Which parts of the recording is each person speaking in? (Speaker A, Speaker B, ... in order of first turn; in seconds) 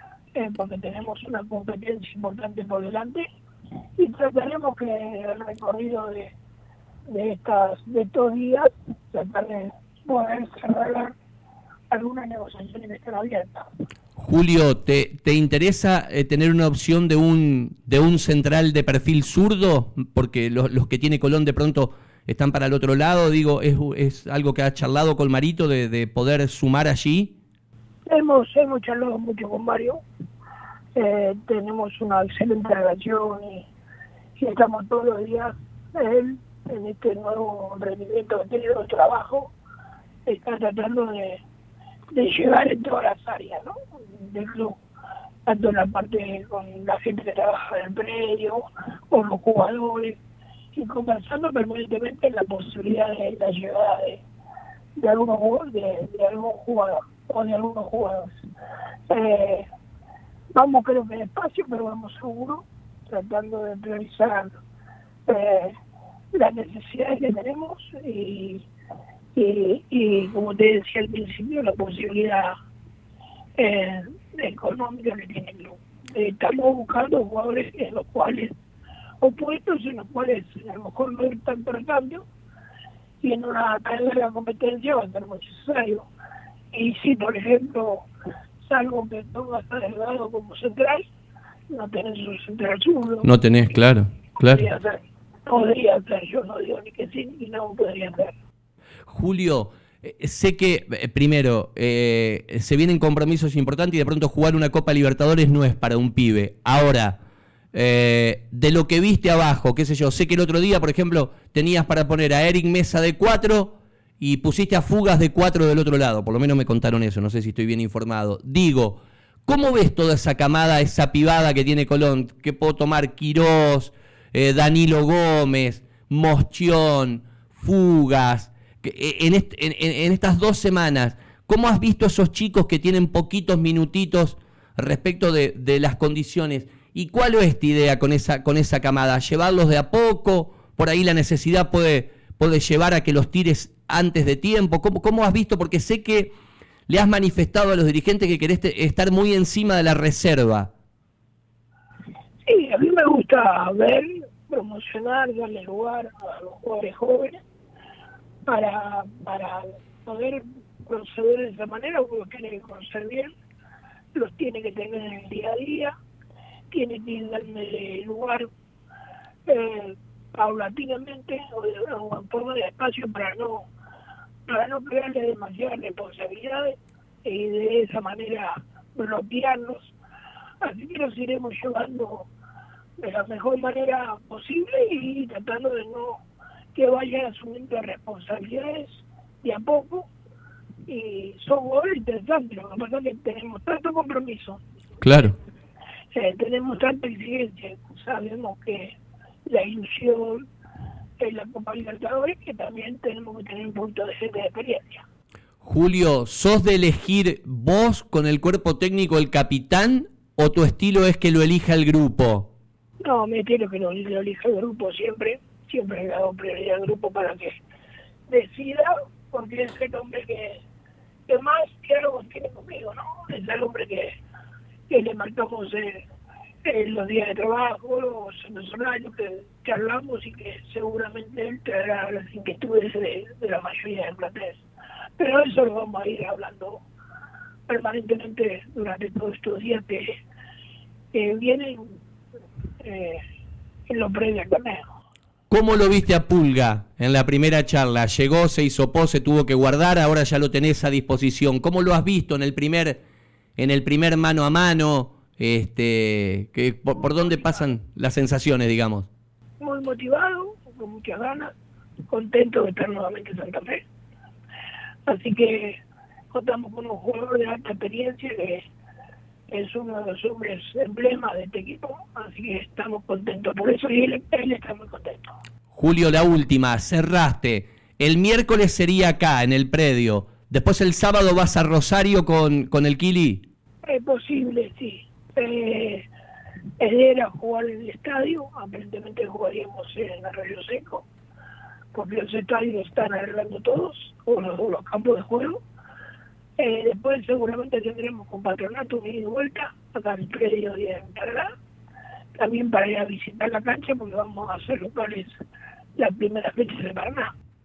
Speaker A: 0.3-3.2, 4.0-6.3, 7.1-11.1, 11.9-13.7, 28.1-30.0, 30.9-33.7, 34.4-39.5, 40.2-41.4, 42.1-44.8, 45.5-50.2, 50.7-54.2, 55.0-58.5, 59.1-59.7, 60.5-64.6, 65.3-65.7, 66.3-68.7, 69.3-72.5, 73.6-78.5, 79.2-82.2, 83.2-86.1, 86.7-88.1, 88.6-91.1, 91.7-93.3, 94.4-98.3, 152.4-157.4, 158.5-163.3, 164.1-165.9, 166.7-168.5, 169.4-173.7, 174.5-179.9, 180.6-182.3, 183.0-186.2, 186.7-190.1, 190.9-194.6, 196.1-200.4, 201.2-205.0, 213.0-217.6, 218.3-220.6, 221.3-224.2, 224.9-226.0, 226.7-234.6, 235.2-236.8, 237.7-240.2, 241.1-242.0, 242.8-243.2, 243.9-245.0, 257.0-257.5, 259.6-261.5, 262.1-263.8, 265.1-265.8, 266.3-268.6, 269.5-275.3, 283.8-286.1, 286.8-291.1, 291.9-295.6, 296.6-301.5, 302.3-305.3, 306.0-307.3
Speaker B: 14.2-27.3, 93.2-94.7, 99.1-107.2, 107.7-146.3, 146.9-150.7, 195.0-195.3, 205.6-212.5, 245.5-253.0, 253.6-259.1, 275.7-283.4